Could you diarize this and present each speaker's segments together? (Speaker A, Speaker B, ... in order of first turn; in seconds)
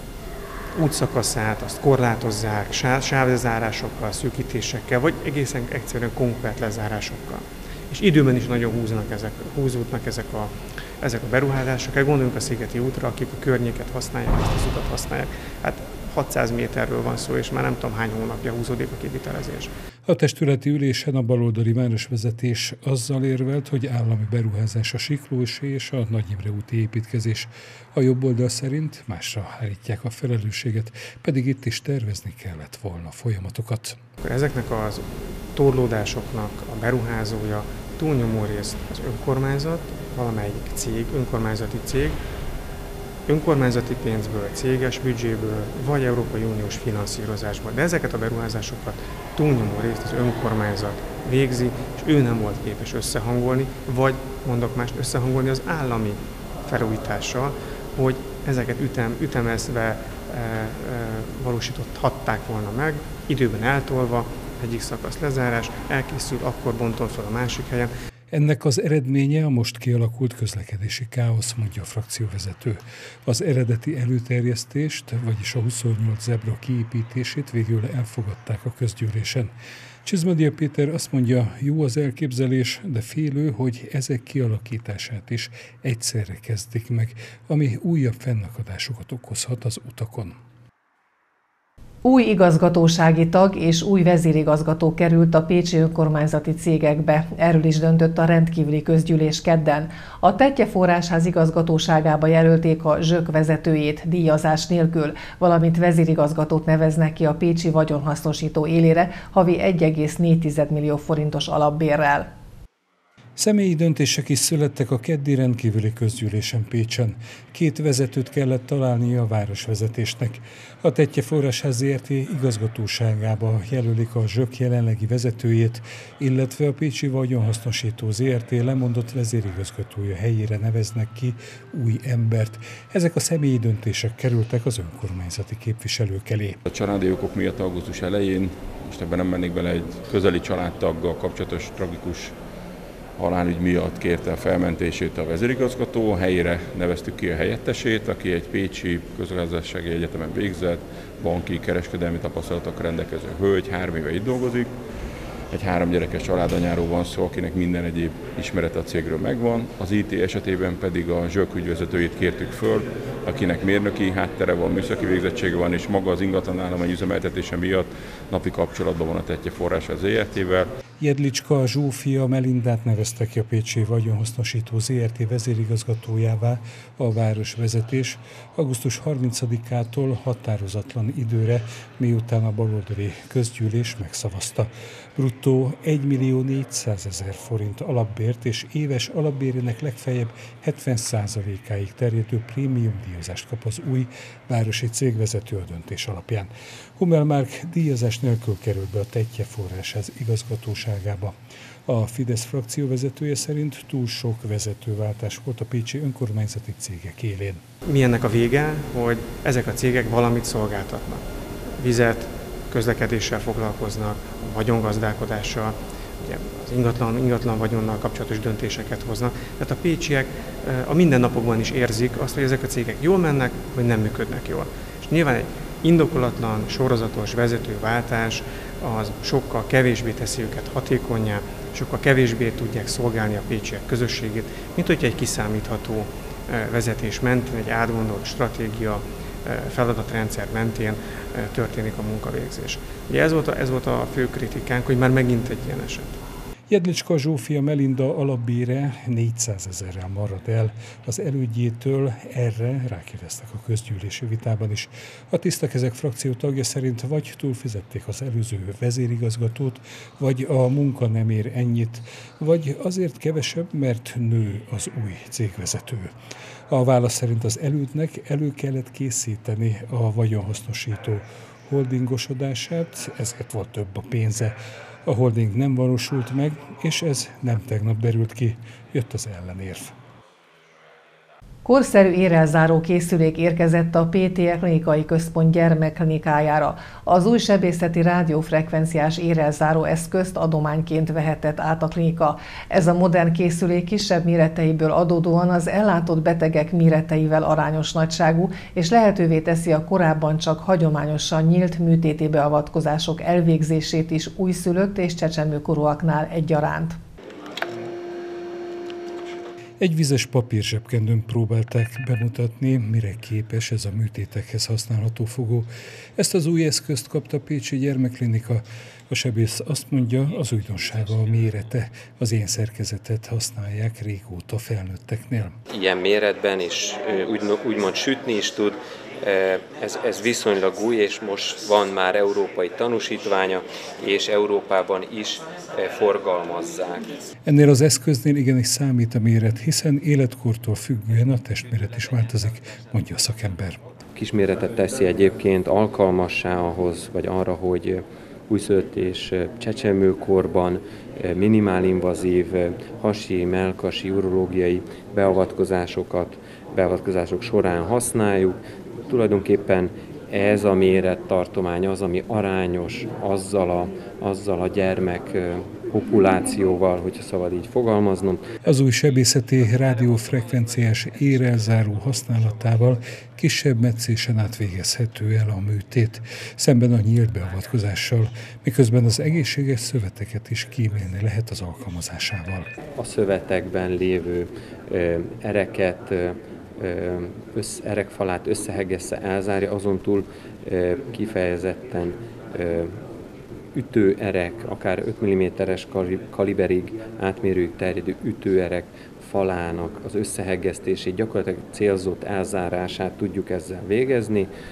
Speaker A: 0.7-19.7, 34.2-42.2, 43.2-67.9, 207.8-211.2, 211.8-246.2
Speaker B: 20.1-34.0, 68.3-79.5, 80.0-90.3, 113.4-136.6, 171.0-201.3, 201.8-207.6, 246.7-266.1, 266.7-274.5, 275.1-279.9, 309.8-325.6, 337.4-343.8, 368.6-382.7
Speaker C: 92.0-112.3, 281.6-307.0
Speaker D: 136.7-142.3, 143.2-154.7, 155.5-170.7
Speaker E: 325.7-337.1, 344.1-368.4, 382.9-393.0, 393.7-404.5